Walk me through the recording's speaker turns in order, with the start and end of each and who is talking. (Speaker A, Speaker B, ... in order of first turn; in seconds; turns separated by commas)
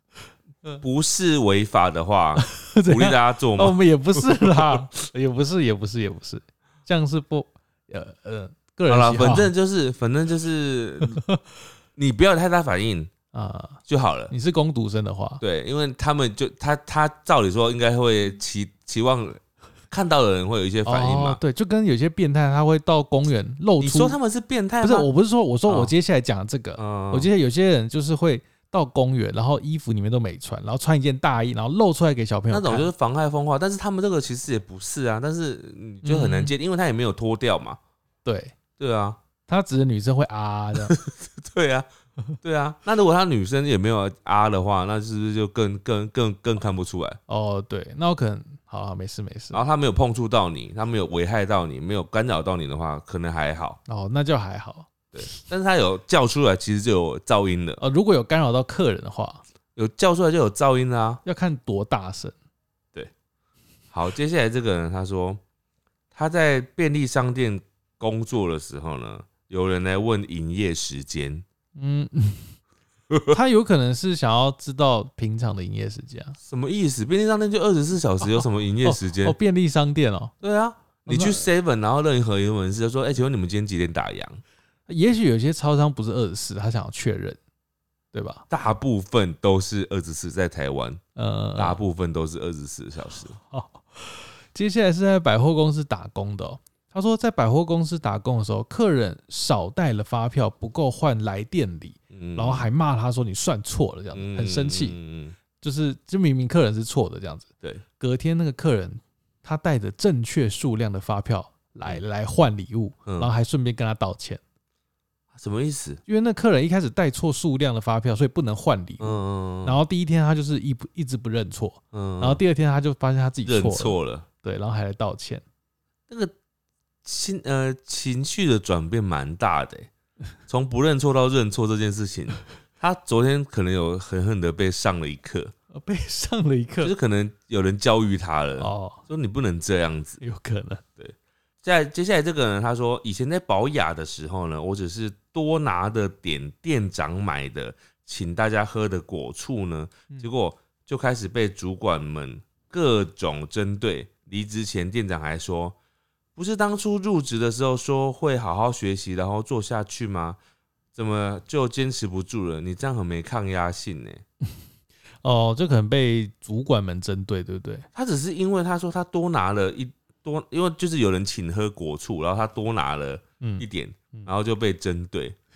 Speaker A: 0.8-4.8, Speaker B: 2.4-9.5, Speaker A: 8.9-11.2, Speaker B: 11.1-11.4, Speaker A: 12.0-13.1, Speaker B: 13.3-15.4, Speaker A: 13.9-14.3, Speaker A: 15.4-21.4, Speaker B: 20.9-24.2, Speaker A: 23.8-25.1, Speaker B: 24.8-32.9, Speaker A: 25.7-25.9, Speaker A: 26.8-27.3, Speaker A: 32.5-37.8, Speaker B: 36.0-36.5, Speaker B: 38.2-38.5, Speaker A: 38.8-39.2, Speaker B: 39.5-41.0, Speaker A: 40.8-41.9, Speaker A: 42.4-47.2, Speaker B: 47.3-49.6, Speaker A: 49.5-53.8, Speaker B: 53.9-55.4, Speaker A: 55.1-57.8, Speaker B: 57.8-59.4, Speaker A: 59.8-61.2, Speaker B: 61.2-62.4, Speaker A: 63.9-65.4, Speaker A: 66.1-71.4, Speaker B: 71.8-72.6, Speaker A: 73.1-73.4, Speaker B: 73.3-76.4, Speaker A: 76.4-79.4, Speaker B: 78.2-80.3, Speaker A: 80.4-84.4, Speaker B: 81.1-81.5, Speaker B: 84.9-87.4, Speaker B: 88.1-88.5, Speaker A: 88.5-91.0, Speaker B: 91.2-91.8, Speaker A: 91.6-93.4, Speaker B: 93.4-105.0, Speaker A: 102.1-102.7, Speaker A: 104.1-105.4, Speaker B: 105.6-107.5, Speaker B: 108.0-114.4, Speaker A: 115.3-116.0, Speaker B: 116.1-125.4, Speaker A: 119.0-119.8, Speaker A: 121.9-122.4, Speaker A: 123.5-124.2, Speaker A: 127.0-129.9, Speaker A: 130.5-135.5, Speaker B: 135.7-136.9, Speaker A: 136.8-140.2, Speaker B: 138.6-139.1, Speaker B: 140.2-140.8, Speaker A: 141.0-155.8, Speaker A: 156.4-160.4, Speaker A: 160.9-164.2, Speaker B: 165.2-167.9, Speaker A: 167.9-175.4, Speaker B: 173.4-174.3